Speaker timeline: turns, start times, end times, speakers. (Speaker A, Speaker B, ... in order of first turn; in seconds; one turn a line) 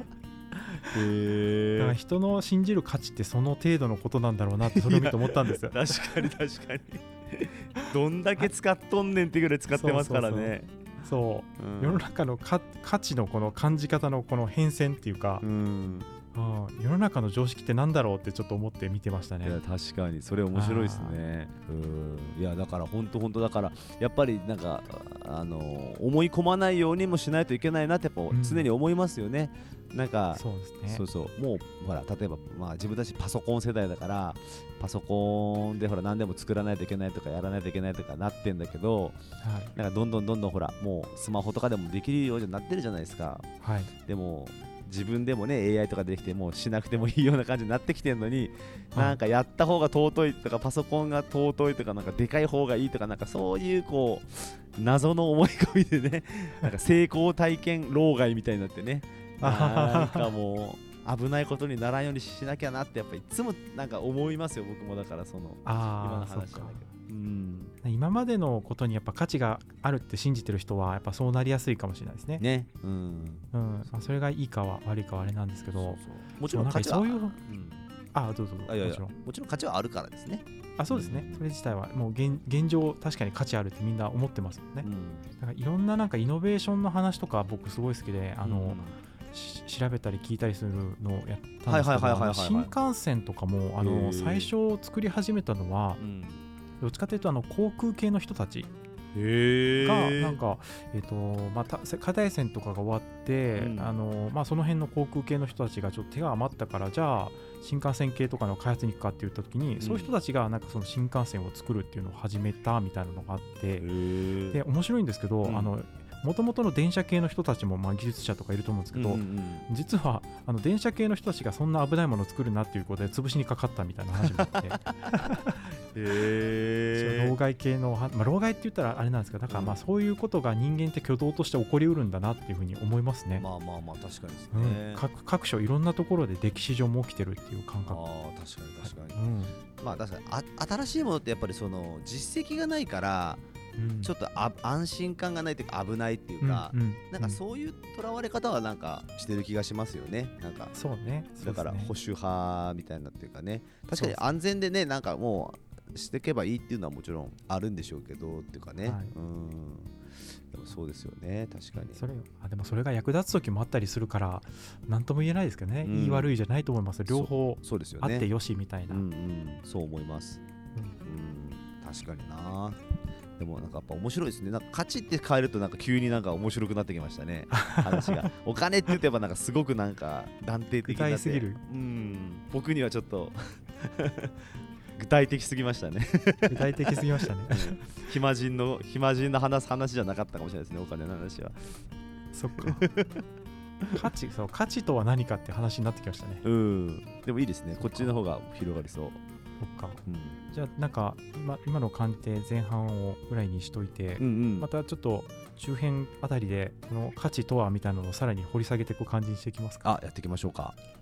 Speaker A: 0.6-2.0
Speaker B: 1.8-6.0
Speaker A: 4.6-10.7
Speaker B: 9.7-15.4
Speaker A: 11.6-12.1
Speaker A: 15.4-16.1
Speaker B: 16.3-19.6
Speaker A: 19.4-39.2
Speaker B: 20.5-21.2
Speaker B: 28.3-28.7
Speaker B: 30.3-31.0
Speaker B: 39.4-39.7
Speaker A: 39.7-43.5
Speaker B: 43.6-43.9
Speaker A: 44.0-67.7
Speaker B: 59.4-60.3
Speaker B: 65.6-66.8
Speaker B: 67.8-72.4
Speaker A: 72.4-74.1
Speaker B: 73.5-77.3
Speaker A: 75.7-77.8
Speaker B: 78.1-79.1
Speaker A: 78.7-81.5
Speaker B: 80.8-84.9
Speaker A: 84.8-85.3
Speaker B: 85.4-96.0
Speaker A: 88.4-89.0
Speaker A: 91.7-92.7
Speaker A: 93.8-94.5
Speaker A: 96.0-96.5
Speaker B: 96.8-98.7
Speaker A: 99.1-100.4
Speaker B: 99.8-113.9
Speaker A: 103.5-104.0
Speaker A: 109.8-110.1
Speaker A: 113.8-114.6
Speaker B: 114.5-125.6
Speaker A: 115.4-115.7
Speaker A: 118.9-119.6
Speaker A: 124.2-127.3
Speaker B: 127.0-133.4
Speaker A: 129.5-129.8
Speaker A: 133.3-135.0
Speaker B: 134.5-138.0
Speaker A: 137.9-139.2
Speaker B: 138.8-139.6
Speaker A: 139.8-143.4
Speaker B: 143.8-144.1
Speaker A: 144.0-150.7
Speaker B: 146.4-147.4
Speaker B: 150.7-151.9
Speaker A: 151.4-160.0
Speaker B: 153.9-154.2
Speaker B: 158.8-159.1
Speaker A: 160.5-162.0
Speaker B: 161.9-169.0
Speaker A: 165.8-166.3
Speaker A: 167.1-168.3
Speaker A: 168.9-170.4
Speaker A: 171.0-172.8
Speaker A: 173.4-191.8
Speaker B: 177.5-178.3
Speaker B: 180.8-181.6
Speaker B: 186.5-188.0
Speaker B: 192.3-192.9
Speaker A: 192.6-193.2
Speaker B: 193.9-196.4
Speaker A: 196.4-199.2
Speaker B: 197.8-198.1
Speaker B: 199.6-200.0
Speaker A: 200.1-200.4
Speaker B: 200.5-209.8
Speaker A: 204.2-204.7
Speaker A: 209.8-210.8